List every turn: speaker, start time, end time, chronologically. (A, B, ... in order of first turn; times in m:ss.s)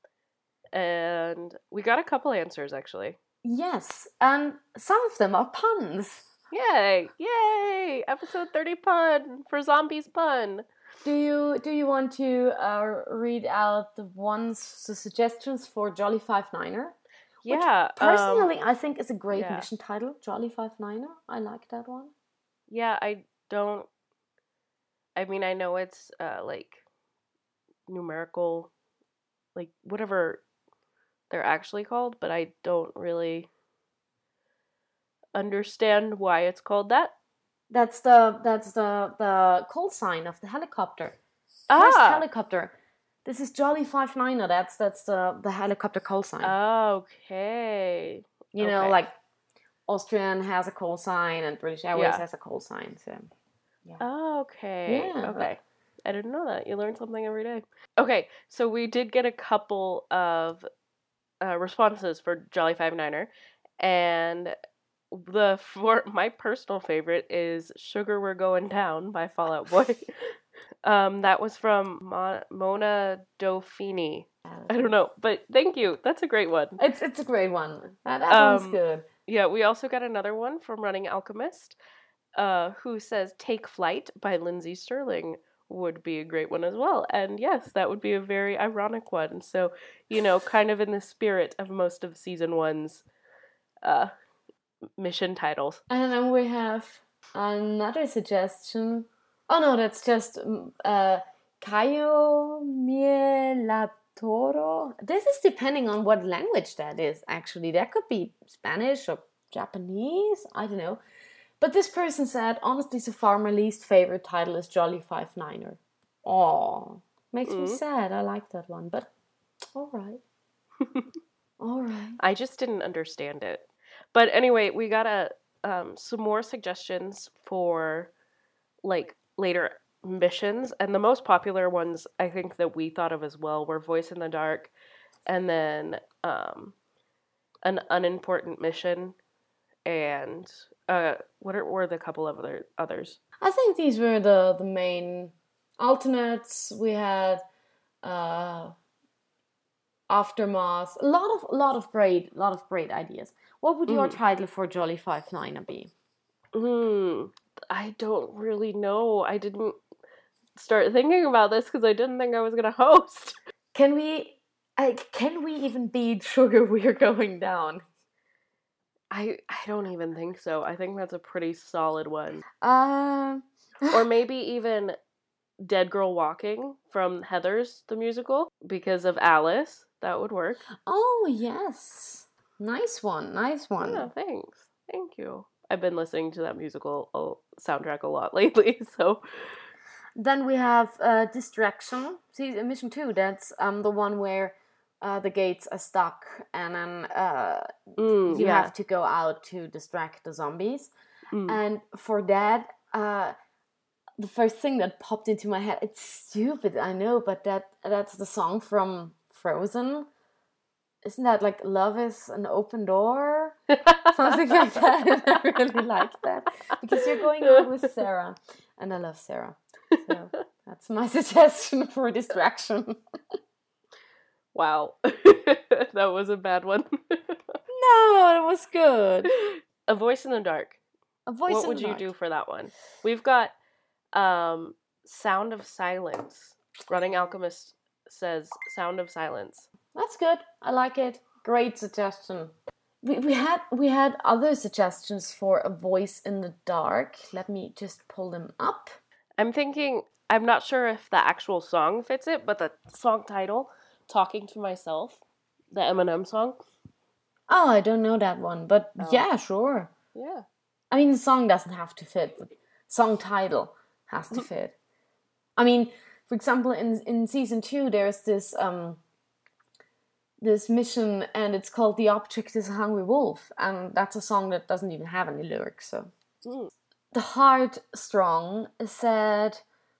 0:00.7-0:03.2 A
0:03.4-0:06.3 B
0:06.5-0:10.7 A
0:11.0-0:22.1 B
0:17.4-0:18.5 A
0:19.3-0:19.7 A
0:22.7-0:23.9 A
0:25.2-0:26.8 A
0:27.9-0:28.7 A
0:29.6-0:30.4 A
0:31.3-0:33.5 A
0:35.4-0:37.1 A
0:37.7-0:41.2 B
0:41.7-0:42.2 A
0:41.8-0:42.7 B
0:43.2-0:46.5 B
0:46.4-0:49.0 A
0:48.5-0:49.2 B
0:49.9-0:53.3 B
0:52.0-0:52.2 A
0:54.0-1:00.7 A
0:54.9-0:55.5 B
1:01.4-1:04.6 A
1:05.1-1:16.8 A
1:14.5-1:14.8 B
1:16.8-1:19.1 B
1:18.3-1:21.8 A
1:22.4-1:33.0 A
1:33.8-1:34.1 A
1:35.0-1:35.8 A
1:35.9-1:51.0 B
1:51.6-1:59.1 B
1:57.5-1:57.8 A
1:59.7-2:00.2 B
2:01.6-2:02.2 B
2:02.2-2:08.1 A
2:08.8-2:14.7 A
2:15.3-2:16.8 A
2:17.6-2:19.2 A
2:19.9-2:23.2 A
2:23.4-2:27.4 B
2:28.0-2:28.8 B
2:30.1-2:35.9 B
2:33.9-2:34.2 A
2:36.5-2:39.8 A
2:40.6-2:43.4 A
2:43.7-2:47.8 B
2:49.1-2:52.4 A
2:52.6-2:54.0 B
2:53.9-2:55.0 A
2:55.6-3:00.6 A
3:00.9-3:04.1 B
3:03.8-3:09.2 A
3:10.2-3:17.7 B
3:18.0-3:18.7 A
3:18.3-3:20.9 B
3:21.3-3:21.6 A
3:21.5-3:23.4 B
3:24.2-3:30.1 B
3:31.0-3:33.6 B
3:33.7-3:34.0 A
3:34.1-3:43.0 B
3:36.9-3:37.6 A
3:44.5-3:47.4 A
3:47.7-3:49.3 B
3:49.3-3:50.8 A
3:51.3-3:52.1 B
3:51.5-3:53.5 A
3:54.1-3:59.7 A
3:59.9-4:09.0 B
4:09.4-4:16.6 A
4:17.5-4:19.9 B
4:19.0-4:19.3 A
4:20.1-4:20.5 A
4:20.9-4:24.7 B
4:25.6-4:29.0 B
4:30.4-4:36.1 B
4:36.4-4:36.7 A
4:37.1-4:39.6 B